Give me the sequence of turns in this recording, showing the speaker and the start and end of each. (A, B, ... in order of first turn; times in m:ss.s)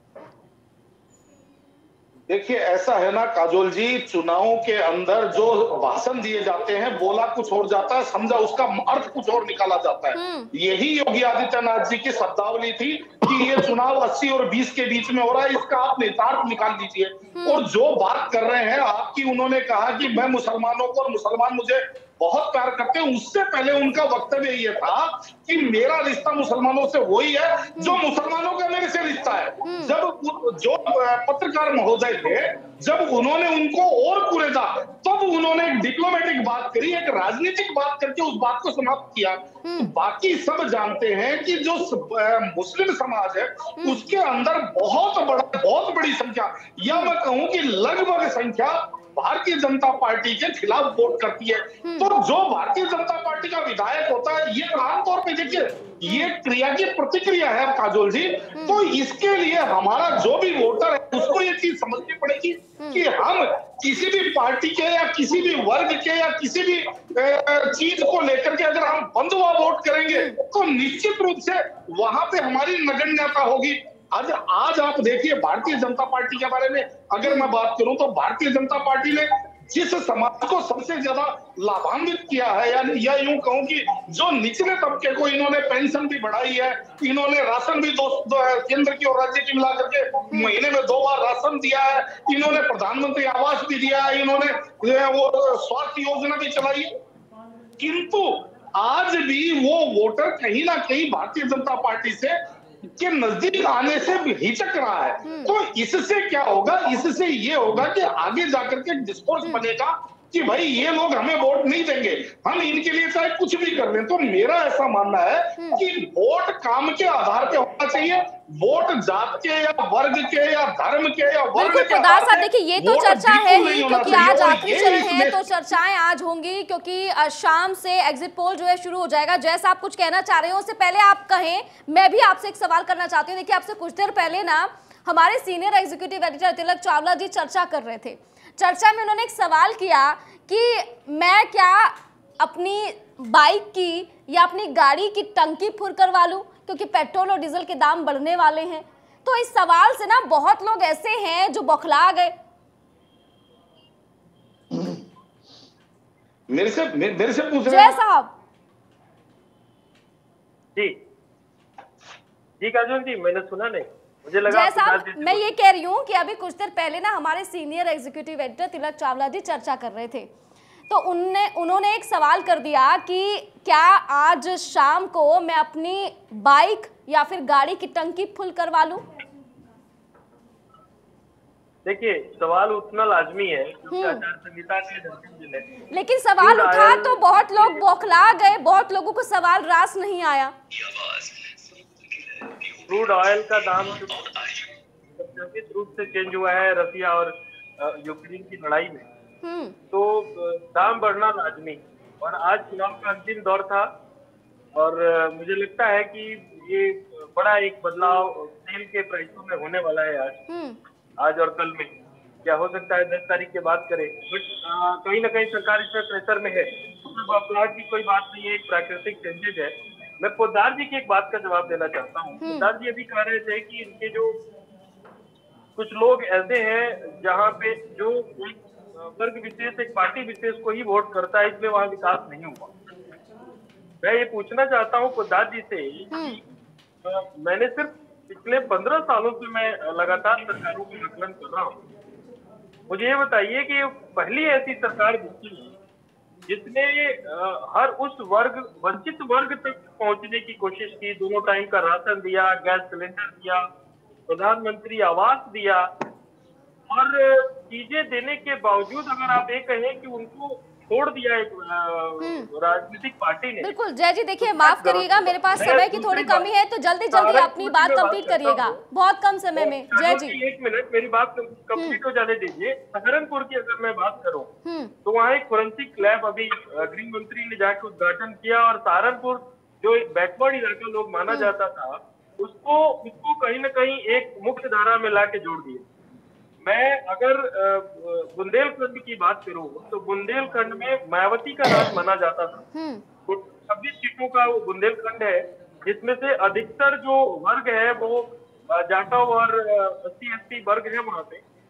0:02.3-1:36.9 A
0:10.1-0:10.5 B
0:17.3-0:17.7 B
0:29.6-0:29.9 B
0:39.6-0:39.9 B
0:43.8-0:44.1 B
0:46.9-0:47.2 B
0:51.8-0:52.1 B
0:56.0-0:56.3 B
0:58.6-0:58.8 B
1:02.8-1:03.0 B
1:10.1-1:10.4 B
1:17.2-1:17.5 B
1:37.8-2:05.5 A
1:45.2-1:45.5 B
2:01.6-2:32.3 B
2:36.5-2:38.0 A
2:37.6-2:38.4 B
2:42.6-2:45.4 C
2:44.5-2:50.3 B
2:50.9-2:59.0 B
3:01.8-3:05.7 C
3:03.9-3:04.2 B
3:05.9-3:10.5 B
3:06.4-3:07.8 C
3:12.7-3:19.1 C
3:19.4-3:19.8 B
3:19.9-3:23.9 C
3:24.8-3:30.4 C
3:30.5-3:30.8 B
3:31.2-3:31.9 C
3:32.4-3:44.4 C
3:42.4-3:42.7 B
3:45.8-3:52.7 C
3:54.0-3:56.4 C
3:56.1-3:56.4 B
3:57.0-4:01.8 C
4:02.9-4:05.7 C
4:06.5-4:13.6 C
4:14.3-4:15.9 C
4:16.9-4:23.7 C
4:22.2-4:22.5 B
4:23.6-4:30.4 B
4:24.4-4:26.4 C
4:27.1-4:28.8 C
4:29.6-4:34.5 C
4:34.6-4:34.9 B
4:35.0-4:45.8 C
4:46.6-4:52.7 C
4:52.7-4:53.0 B
4:53.3-5:01.4 C